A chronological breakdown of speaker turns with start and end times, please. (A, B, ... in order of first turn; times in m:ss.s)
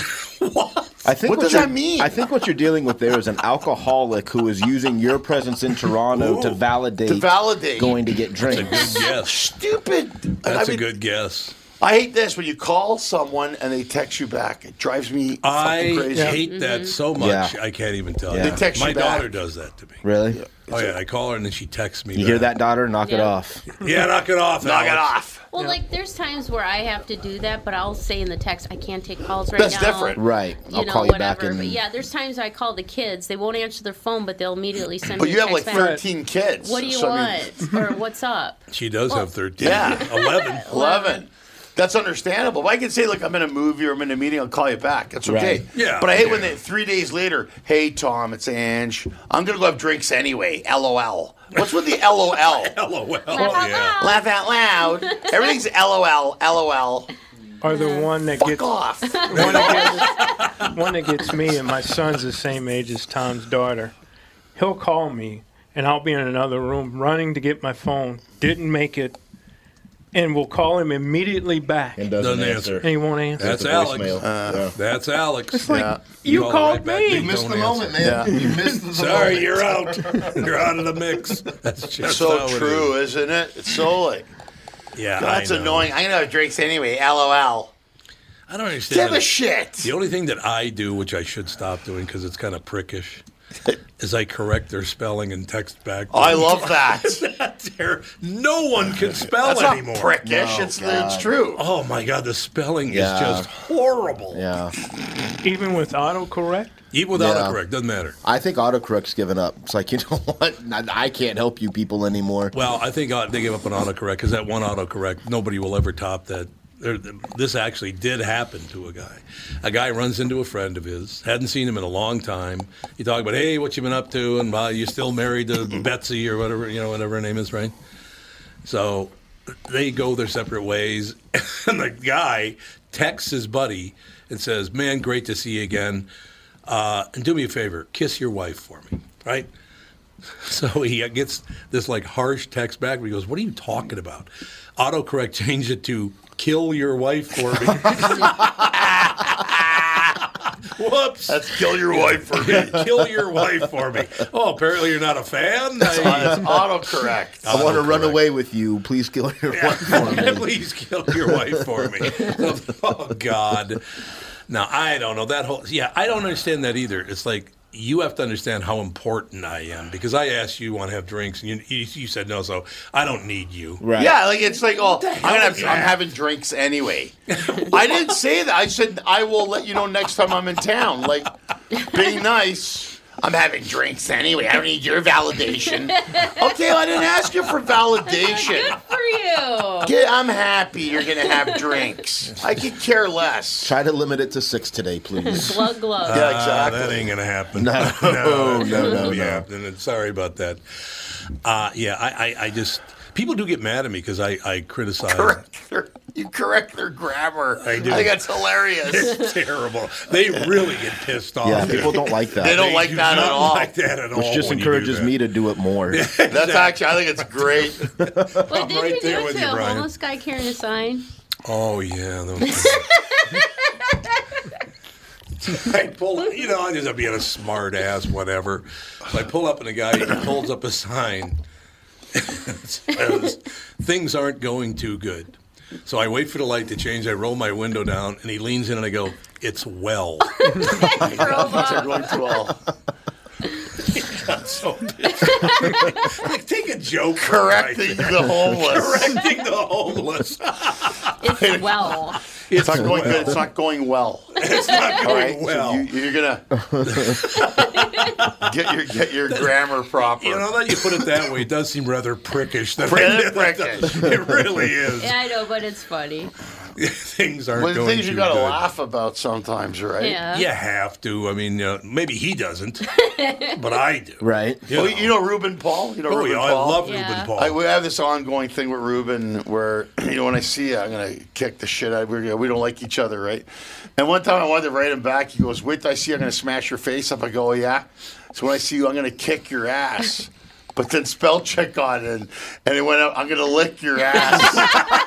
0:00.4-0:01.0 A
0:01.0-0:09.0 B
0:01.2-0:02.2 C
0:06.1-0:06.6 A
0:07.0-0:08.0 C
0:08.5-0:09.4 A
0:08.8-0:09.1 D
0:09.0-0:10.9 C
0:10.4-0:11.6 A
0:11.8-0:16.4 C
0:15.4-0:20.0 A
0:16.1-0:16.4 E
0:16.4-0:17.0 D
0:17.2-0:17.6 B
0:18.3-0:18.6 B
0:18.4-0:19.3 C
0:20.0-0:20.5 B
0:20.3-0:20.8 C
0:20.7-0:22.5 A
0:22.1-0:23.6 B
0:23.0-0:23.3 D
0:23.8-0:25.1 A
0:24.6-0:25.4 C
0:25.5-0:36.0 D
0:29.6-0:30.2 C
0:30.2-0:31.8 B
0:35.2-0:37.5 C
0:35.7-0:36.0 E
0:36.6-0:41.2 D
0:38.7-0:40.6 A
0:39.6-0:52.8 C
0:45.2-0:45.6 B
0:45.7-0:46.5 A
0:52.4-0:54.0 A
0:53.3-0:54.3 D
0:53.4-0:53.7 E
0:54.0-0:57.1 C
0:55.1-0:55.5 D
0:57.6-0:58.7 E
0:57.7-0:58.1 D
0:58.4-0:59.9 C
0:59.1-1:00.4 D
0:59.3-1:03.9 E
0:59.3-1:00.7 A
1:04.6-1:09.2 E
1:10.1-1:12.1 E
1:12.0-1:14.8 B
1:12.2-1:12.8 A
1:12.8-1:13.5 E
1:13.4-1:14.2 A
1:14.2-1:14.7 C
1:14.8-1:15.7 A
1:15.5-1:17.3 E
1:15.6-1:16.0 C
1:16.2-1:18.0 A
1:17.0-1:20.2 B
1:18.0-1:18.3 C
1:18.2-1:18.8 E
1:18.9-1:22.9 A
1:22.0-1:24.3 C
1:25.0-1:25.9 A
1:25.2-1:27.7 C
1:28.5-1:29.3 A
1:28.9-1:29.9 C
1:29.8-1:33.2 A
1:34.0-1:40.1 A
1:36.1-1:37.2 C
1:39.3-1:41.6 C
1:40.2-1:41.4 B
1:41.6-1:44.4 A
1:42.9-1:43.5 B
1:44.3-1:44.7 B
1:45.4-1:46.8 E
1:46.9-1:48.1 A
1:47.1-1:47.6 B
1:48.2-1:52.5 B
1:52.5-2:07.7 A
2:08.6-2:09.1 A
2:09.7-2:16.1 A
2:16.7-2:19.5 A
2:20.4-2:28.4 A
2:28.6-2:30.1 C
2:30.8-2:31.4 A
2:31.2-2:32.8 C
2:31.9-2:36.4 A
2:35.8-2:37.8 C
2:37.4-2:38.2 A
2:37.5-2:40.5 B
2:39.5-2:43.8 A
2:41.1-2:42.0 B
2:44.5-2:53.8 A
2:53.8-2:54.2 B
2:53.9-3:01.3 C
2:54.9-2:55.9 A
3:01.9-3:08.8 C
3:06.0-3:06.5 D
3:08.1-3:09.9 D
3:09.8-3:13.7 C
3:13.6-3:15.6 B
3:15.2-3:16.3 D
3:16.1-3:17.1 C
3:16.1-3:20.6 A
3:17.5-3:19.4 B
3:18.5-3:19.2 D
3:21.4-3:25.4 A
3:25.0-3:29.2 C
3:27.6-3:28.2 A
3:28.9-3:35.1 A
3:31.4-3:32.6 B
3:32.3-3:33.7 C
3:34.1-3:36.1 B
3:35.9-3:37.3 A
3:36.2-3:37.8 C
3:38.0-3:38.4 B
3:38.4-3:41.0 D
3:38.5-3:39.8 A
3:41.4-3:42.8 A
3:42.4-3:43.9 D
3:45.4-3:51.4 A
3:52.1-3:55.3 A
3:55.8-4:00.3 A
4:00.3-4:02.2 D
4:00.9-4:02.6 C
4:04.0-4:10.9 A
4:05.2-4:06.1 D
4:07.2-4:09.2 C
4:11.2-4:12.2 D
4:11.3-4:11.7 C
4:12.5-4:13.3 A
4:12.5-4:16.4 C
4:14.4-4:15.8 A
4:14.6-4:15.1 D
4:16.6-4:17.1 B
4:16.9-4:17.6 A
4:17.6-4:18.0 D
4:18.4-4:21.0 C
4:19.3-4:25.1 A
4:22.8-4:24.0 C
4:24.9-4:26.3 D
4:26.8-4:28.6 A
4:27.5-4:30.2 C
4:30.0-4:30.5 D
4:30.3-4:32.8 A
4:32.8-4:33.6 D
4:33.6-4:35.1 A
4:34.2-4:34.6 B
4:34.7-4:54.8 C
4:36.1-4:37.6 A
4:36.8-4:37.3 D